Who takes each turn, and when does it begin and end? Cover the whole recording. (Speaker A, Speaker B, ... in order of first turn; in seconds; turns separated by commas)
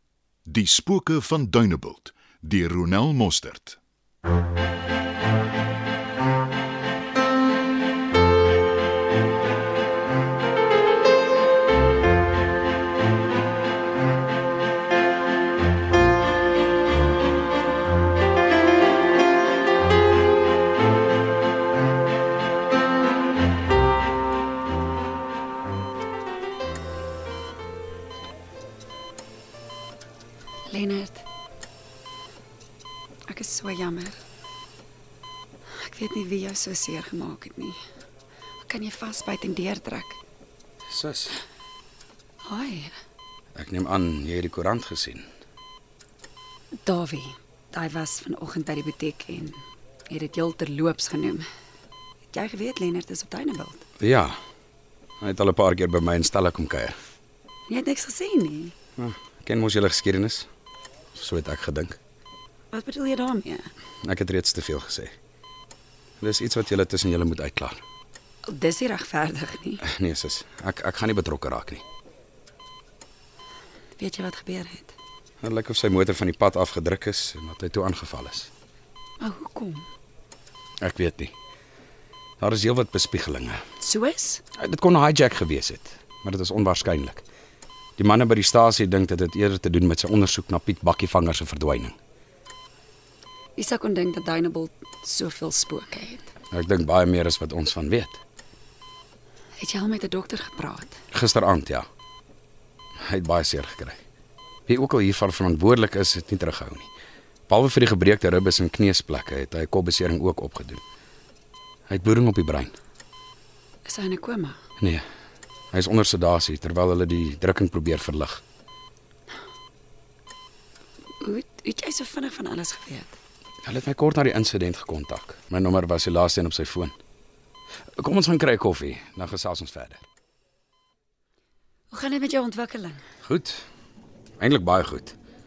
Speaker A: 0.5-3.8, Speaker B: 30.7-31.2, Speaker B: 33.3-34.2, Speaker B: 35.8-37.8, Speaker B: 38.6-40.2, Speaker C: 40.9-41.4, Speaker B: 42.4-42.9, Speaker C: 43.5-45.2, Speaker B: 46.8-51.5, Speaker B: 52.3-53.8, Speaker C: 54.0-54.4, Speaker C: 55.2-56.9, Speaker B: 57.7-58.7, Speaker C: 59.0-60.5, Speaker C: 61.1-62.0, Speaker B: 62.7-63.7, Speaker C: 64.0-65.1, Speaker C: 66.2-67.8, Speaker B: 68.5-69.8, Speaker C: 69.8-71.8, Speaker B: 74.0-74.9, Speaker C: 75.4-78.5, Speaker B: 79.2-79.8, Speaker C: 80.8-81.3, Speaker C: 82.4-83.6, Speaker B: 83.9-84.4, Speaker C: 84.6-87.2, Speaker C: 88.0-92.0, Speaker B: 93.5-96.2, Speaker C: 96.5-98.2, Speaker B: 99.6-101.0, Speaker C: 101.1-101.8, Speaker C: 103.1-104.0, Speaker C: 104.7-106.9, Speaker C: 107.5-110.8, Speaker C: 111.9-112.7, Speaker B: 113.8-114.6, Speaker C: 115.7-118.4, Speaker B: 121.2-123.2, Speaker C: 123.6-126.9, Speaker C: 128.0-130.0, Speaker B: 131.9-133.0, Speaker C: 133.2-133.6, Speaker C: 134.4-135.2